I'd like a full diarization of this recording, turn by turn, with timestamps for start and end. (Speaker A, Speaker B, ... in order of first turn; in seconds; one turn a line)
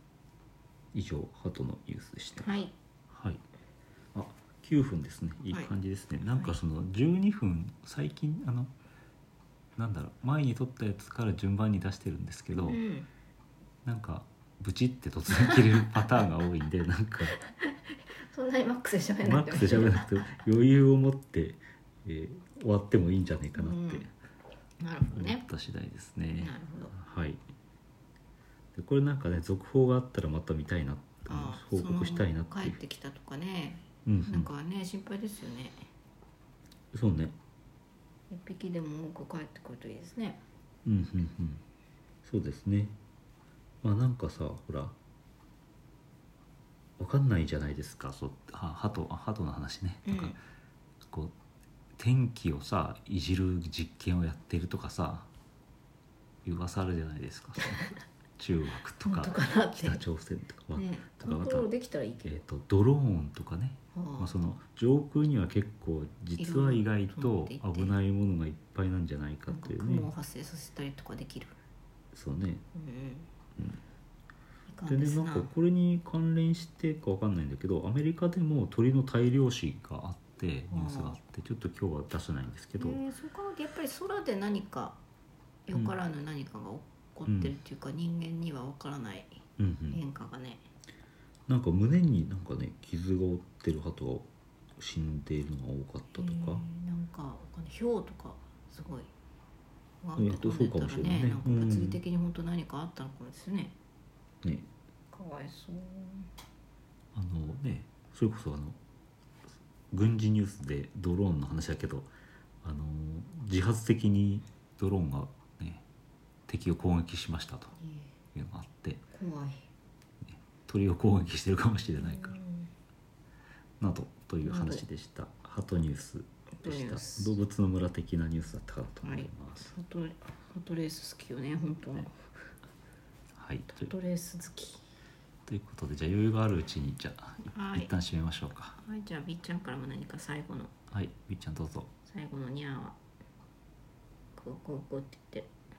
Speaker A: 0.9-2.6
Speaker B: 2.4-2.7
Speaker A: 3.1-3.4
Speaker A: 4.1-8.7
Speaker B: 5.5-6.6
Speaker A: 9.8-12.8
Speaker B: 12.7-13.1
Speaker A: 13.8-17.4
Speaker B: 17.5-20.3
Speaker A: 19.2-24.1
Speaker B: 23.6-24.1
Speaker B: 24.8-25.4
Speaker A: 25.1-27.4
Speaker B: 26.4-26.9
Speaker A: 28.8-32.8
Speaker B: 31.3-35.9
Speaker A: 34.0-34.5
Speaker A: 36.9-37.4
Speaker B: 38.3-40.4
Speaker A: 40.9-41.6
Speaker A: 42.2-43.0
Speaker A: 43.8-45.0
Speaker A: 47.0-50.4
Speaker B: 50.1-50.4
Speaker A: 52.0-55.3
Speaker A: 56.5-61.7
Speaker B: 59.0-60.0
Speaker B: 60.8-62.4
Speaker A: 62.2-70.1
Speaker B: 63.9-64.3
Speaker B: 66.4-68.0
Speaker B: 69.5-71.6
Speaker A: 72.1-72.6
Speaker B: 72.7-73.3
Speaker B: 74.7-75.5
Speaker A: 74.9-83.0
Speaker B: 80.7-81.2
Speaker B: 82.8-85.0
Speaker B: 85.7-90.7
Speaker A: 87.3-87.6
Speaker A: 89.6-90.0
Speaker A: 91.5-96.7
Speaker B: 96.1-99.1
Speaker B: 100.0-103.8
Speaker A: 100.2-102.0
Speaker B: 105.1-106.3
Speaker A: 107.1-108.8
Speaker A: 109.9-112.1
Speaker A: 112.6-115.8
Speaker A: 116.5-117.8
Speaker B: 117.8-118.1
Speaker A: 118.3-119.0
Speaker B: 119.1-119.7
Speaker A: 120.2-122.4
Speaker B: 122.0-122.7
Speaker A: 123.8-129.7
Speaker B: 124.4-124.8
Speaker B: 126.6-127.4
Speaker B: 129.0-132.2
Speaker A: 133.4-133.9
Speaker B: 133.7-134.8
Speaker A: 135.5-138.8
Speaker B: 137.5-138.0
Speaker B: 138.8-140.7
Speaker A: 140.9-141.9
Speaker B: 142.1-143.0
Speaker B: 144.4-145.5